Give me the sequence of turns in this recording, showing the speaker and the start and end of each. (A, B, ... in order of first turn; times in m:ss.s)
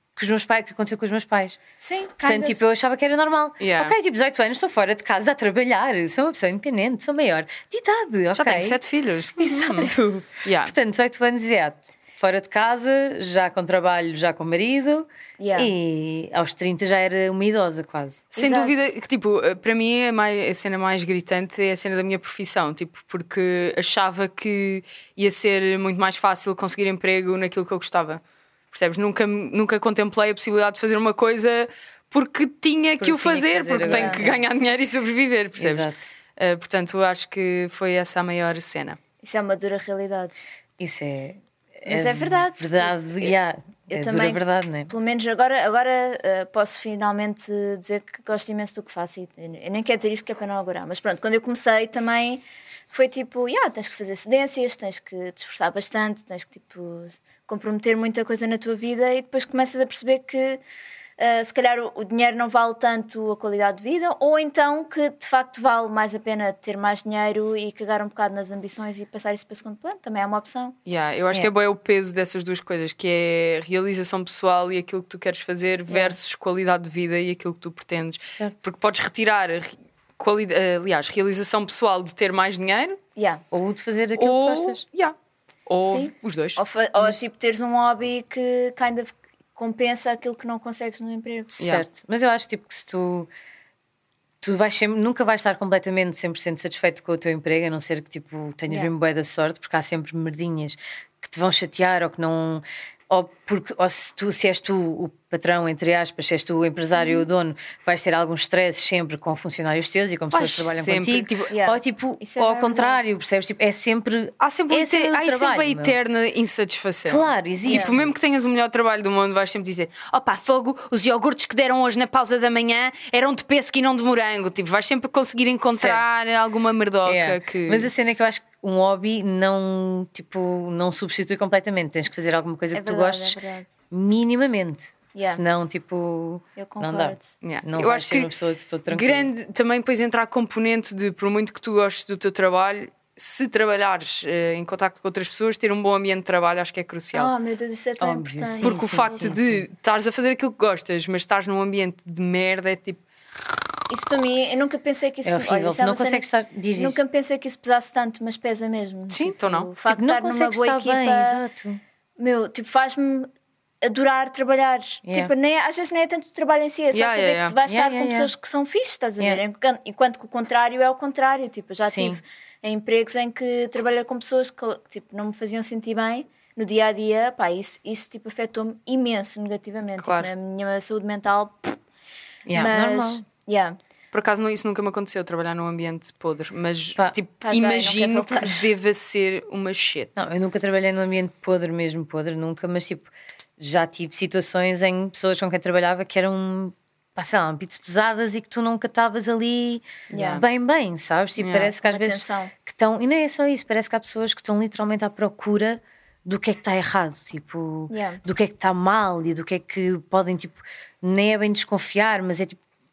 0:00.2-0:01.6 A
0:01.8-0:02.6 B
0:02.2-0:08.8 A
0:03.6-0:04.0 C
0:08.4-0:09.9 C
0:09.4-0:18.3 A
0:10.4-0:10.7 C
0:15.4-0:15.7 B
0:18.3-0:39.0 C
0:18.3-0:18.9 B
0:33.0-0:34.4 A
0:33.8-0:34.2 B
0:35.6-0:36.0 A
0:39.2-0:40.5 B
0:40.8-0:44.9 A
0:41.8-0:43.3 B
0:43.9-1:00.6 B
1:01.2-1:10.8 B
1:10.9-1:23.0 C
1:15.9-1:16.2 B
1:23.2-1:23.4 B
1:23.5-1:24.8 A
1:24.2-1:25.1 C
1:25.7-1:26.6 C
1:25.8-1:31.6 B
1:31.6-1:31.8 C
1:31.6-1:33.3 A
1:34.4-1:55.9 A
1:47.0-1:47.2 B
1:50.3-1:51.5 C
1:51.5-1:53.0 B
1:54.4-2:07.9 C
1:57.1-1:58.1 A
1:57.6-1:57.9 B
2:05.7-2:06.0 A
2:07.0-2:13.4 A
2:12.7-2:13.7 B
2:13.9-2:19.3 A
2:15.1-2:15.4 B
2:16.6-2:17.3 B
2:17.4-2:18.3 C
2:18.9-2:27.3 C
2:27.1-2:29.3 B
2:28.0-2:29.7 A
2:28.6-2:33.0 C
2:33.9-2:41.4 B
2:35.2-2:37.0 A
2:39.1-2:39.7 C
2:39.8-2:41.8 A
2:42.2-2:43.3 B
2:43.8-3:01.8 B
2:45.0-2:45.3 A
2:46.9-2:47.6 C
2:47.6-2:48.3 A
2:51.8-2:52.2 A
3:00.0-3:00.3 C
3:02.4-3:02.7 C
3:02.5-3:03.2 A
3:02.6-3:03.8 B
3:04.1-3:10.3 C
3:07.4-3:08.6 B
3:10.2-3:32.6 A
3:20.1-3:20.4 B
3:20.1-3:20.4 C
3:21.4-3:21.7 C
3:21.8-3:22.5 B
3:27.9-3:28.2 B